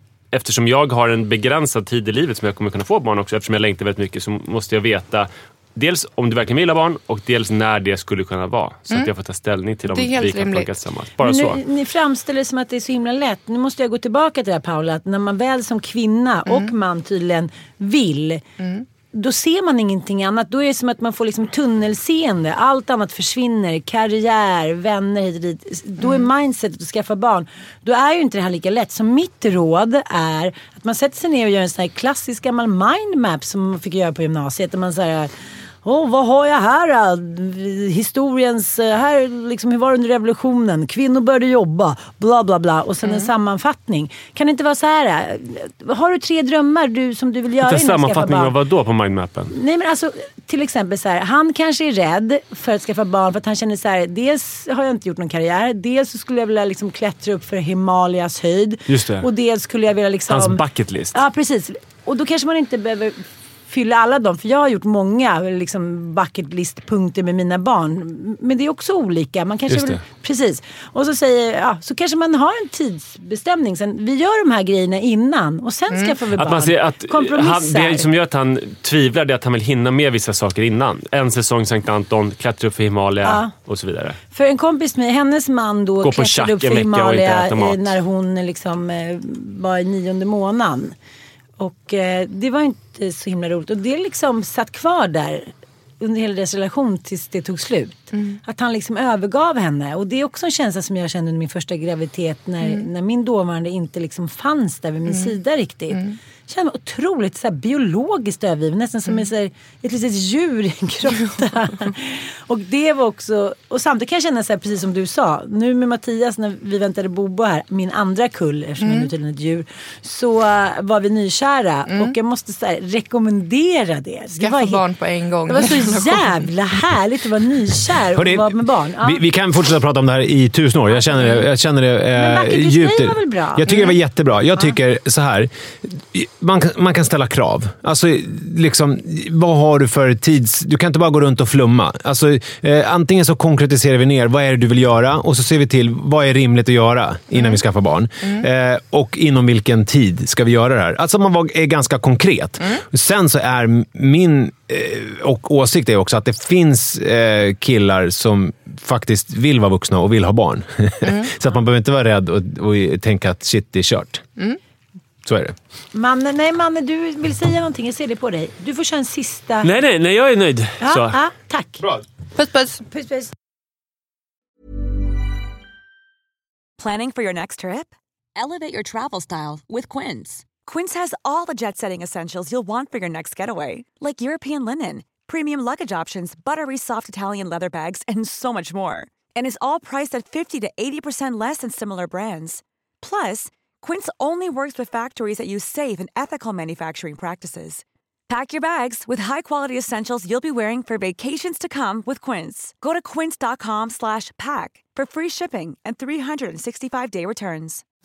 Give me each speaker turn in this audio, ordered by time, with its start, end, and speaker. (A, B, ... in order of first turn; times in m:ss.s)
0:00.3-0:11.6 A
0:09.9-0:10.7 B
0:11.2-0:18.4 C
0:18.6-0:18.8 B
0:19.1-0:35.3 C
0:26.0-0:26.3 B
0:35.8-0:48.5 C
0:43.0-0:43.3 B
0:47.6-0:49.5 A
0:49.5-1:18.1 C
0:58.9-0:59.3 A
1:00.3-1:01.2 A
1:09.7-1:10.0 A
1:15.9-1:16.2 B
1:16.4-1:24.2 A
1:23.2-1:23.5 C
1:24.3-1:30.9 C
1:26.0-1:28.0 A
1:31.6-2:04.8 C
1:38.1-1:38.4 B
1:45.1-1:45.3 B
1:45.9-1:46.2 B
1:58.8-1:59.1 B
2:01.9-2:02.1 B
2:04.4-2:06.4 B
2:05.5-2:09.2 C
2:08.1-2:44.2 D
2:10.9-2:11.4 C
2:12.1-2:13.6 C
2:13.6-2:13.9 B
2:27.3-2:27.6 B
2:41.0-2:41.3 B
2:45.2-2:45.6 D
2:45.9-2:49.7 C
2:49.6-2:51.2 A
2:50.8-2:51.8 C
2:52.3-2:52.8 B
2:52.9-2:53.3 C
2:56.8-3:27.8 E